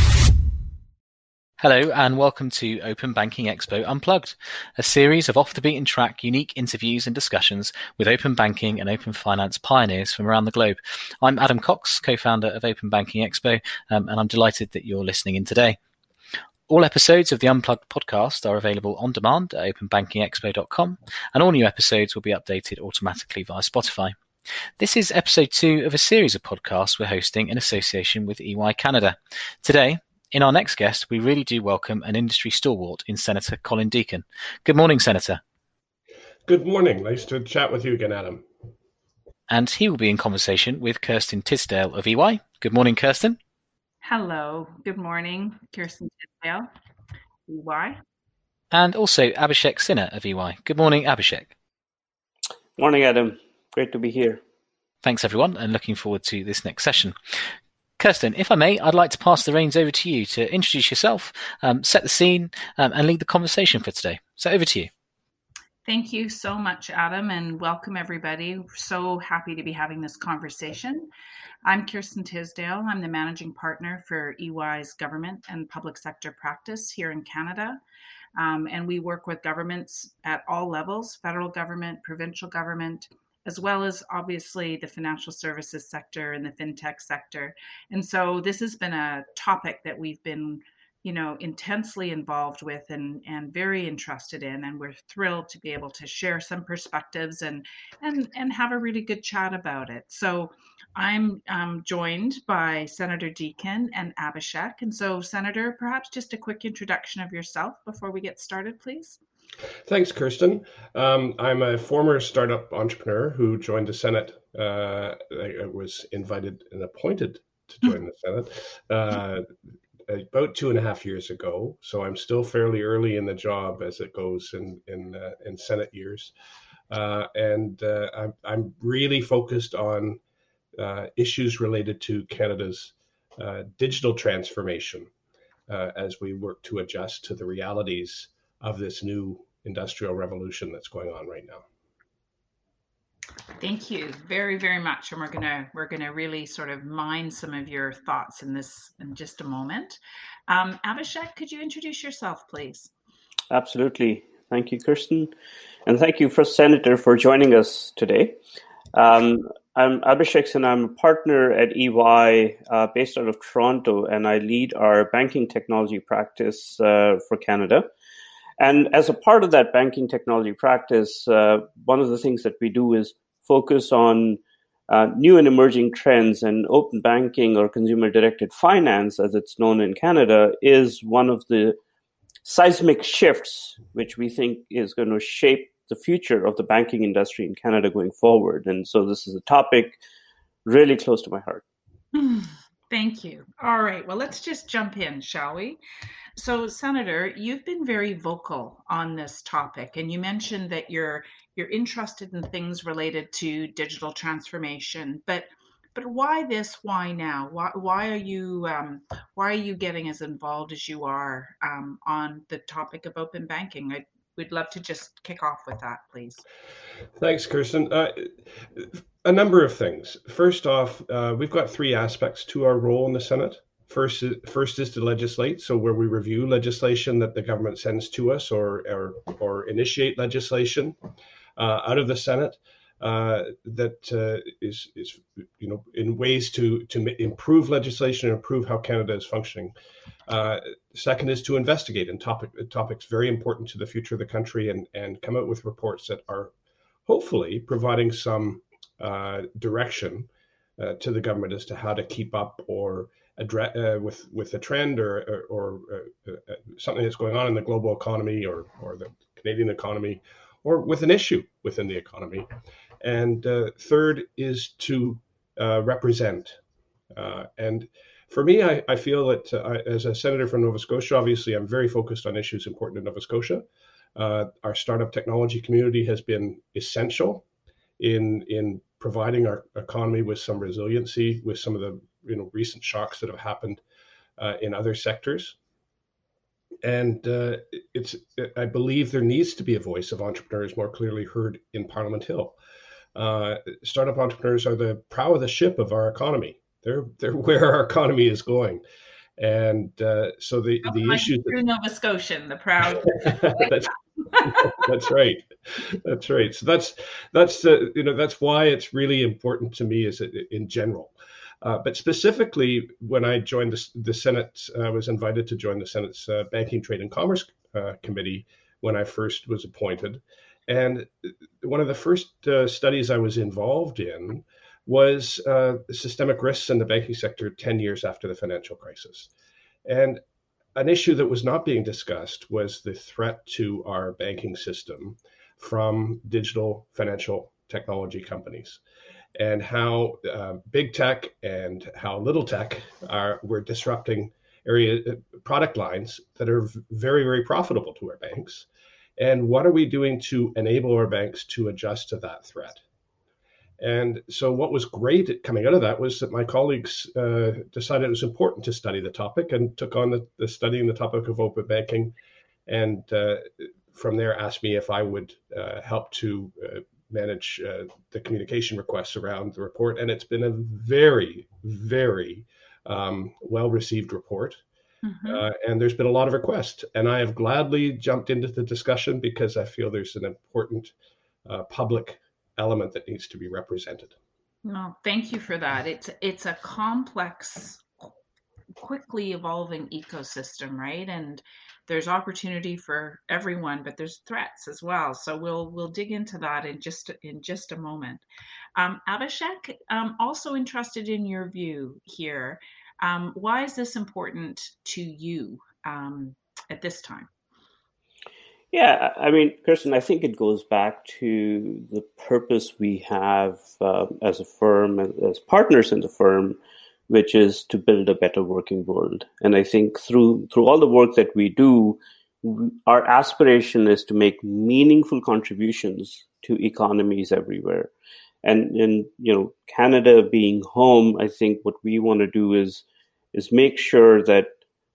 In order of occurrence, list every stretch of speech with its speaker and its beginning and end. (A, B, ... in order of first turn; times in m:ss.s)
0:01.6-0:15.8 A
0:16.7-0:24.2 A
0:24.8-0:35.4 A
0:36.4-0:38.4 B
0:39.5-0:43.4 A
0:44.0-0:46.7 C
0:47.5-0:48.0 C
0:48.7-0:51.5 A
0:52.8-0:54.4 D
0:55.0-0:57.2 A
0:58.0-1:04.9 A
1:05.8-1:11.1 C
1:11.6-1:17.8 C
1:18.4-1:49.2 C
1:49.9-1:59.5 B
2:00.1-2:06.3 B
2:06.9-2:10.2 B
2:10.8-2:15.1 B
2:15.7-2:21.6 B
2:23.6-2:32.9 C
2:33.5-2:35.3 D
2:35.8-2:38.4 D
2:38.9-2:47.9 D
2:48.6-3:01.8 D
3:02.4-3:10.0 D
3:10.6-3:11.6 D
3:12.1-3:15.8 C
3:16.4-3:36.4 C
3:37.2-3:51.0 B
3:51.6-3:59.7 B
4:00.3-4:06.5 B
4:07.1-4:22.5 B
4:23.0-4:26.6 B
4:27.1-4:33.6 B
4:34.2-4:37.4 B
4:38.0-4:43.8 B
4:44.4-4:45.6 B
4:46.8-4:52.6 B
4:53.1-4:58.8 B
4:59.4-5:01.6 B
5:00.8-5:04.7 C
5:03.2-5:29.3 B
5:29.8-5:30.2 B
5:30.7-5:38.8 B
5:39.4-5:48.7 B
5:49.2-5:52.8 B
5:53.8-6:02.1 B
6:02.7-6:14.6 B
6:15.0-6:15.4 C
6:15.2-6:20.9 B
6:21.4-6:24.1 B
6:24.6-6:27.8 C
6:28.8-6:38.2 C
6:38.8-6:47.3 C
6:48.7-7:07.9 D
7:08.4-7:14.5 D